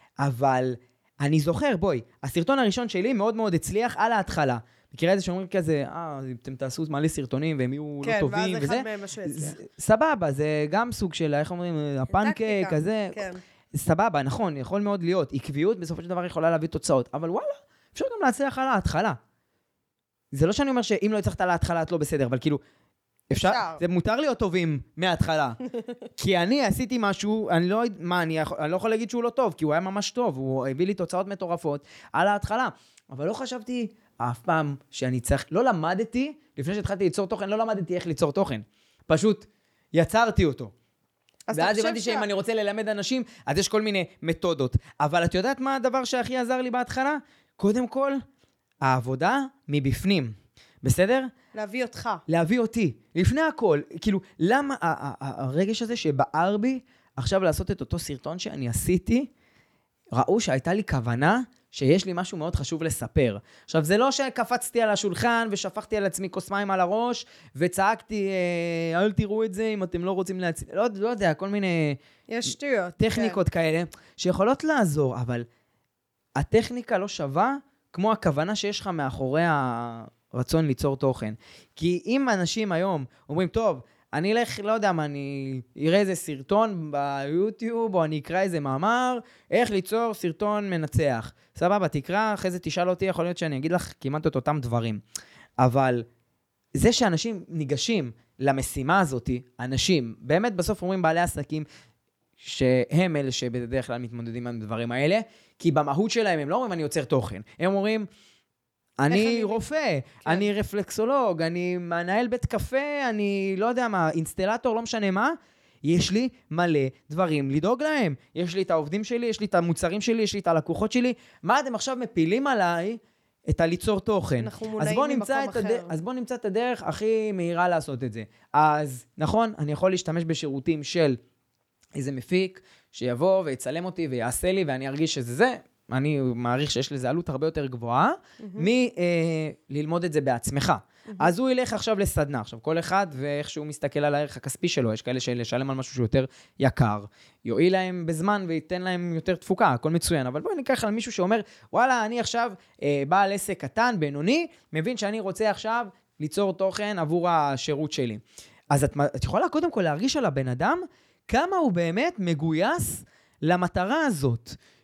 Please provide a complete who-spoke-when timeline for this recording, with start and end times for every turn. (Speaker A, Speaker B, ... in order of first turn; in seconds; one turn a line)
Speaker A: 0.2-19.2
Speaker B: 8.0-9.6
Speaker B: 12.1-13.4
Speaker A: 20.3-22.6
Speaker A: 23.3-25.6
Speaker B: 23.3-23.8
Speaker A: 26.2-40.7
Speaker B: 41.5-42.3
Speaker A: 41.5-48.2
Speaker A: 48.8-51.3
Speaker B: 51.5-52.2
Speaker A: 52.3-59.3
Speaker A: 60.1-72.0
Speaker B: 72.3-73.4
Speaker A: 73.0-75.4
Speaker A: 76.4-95.0
Speaker A: 95.6-96.0
Speaker A: 96.8-101.7
Speaker A: 102.4-108.1
Speaker A: 109.0-131.2
Speaker B: 109.1-110.5
Speaker B: 124.4-125.9
Speaker A: 131.9-164.6
Speaker B: 138.4-138.7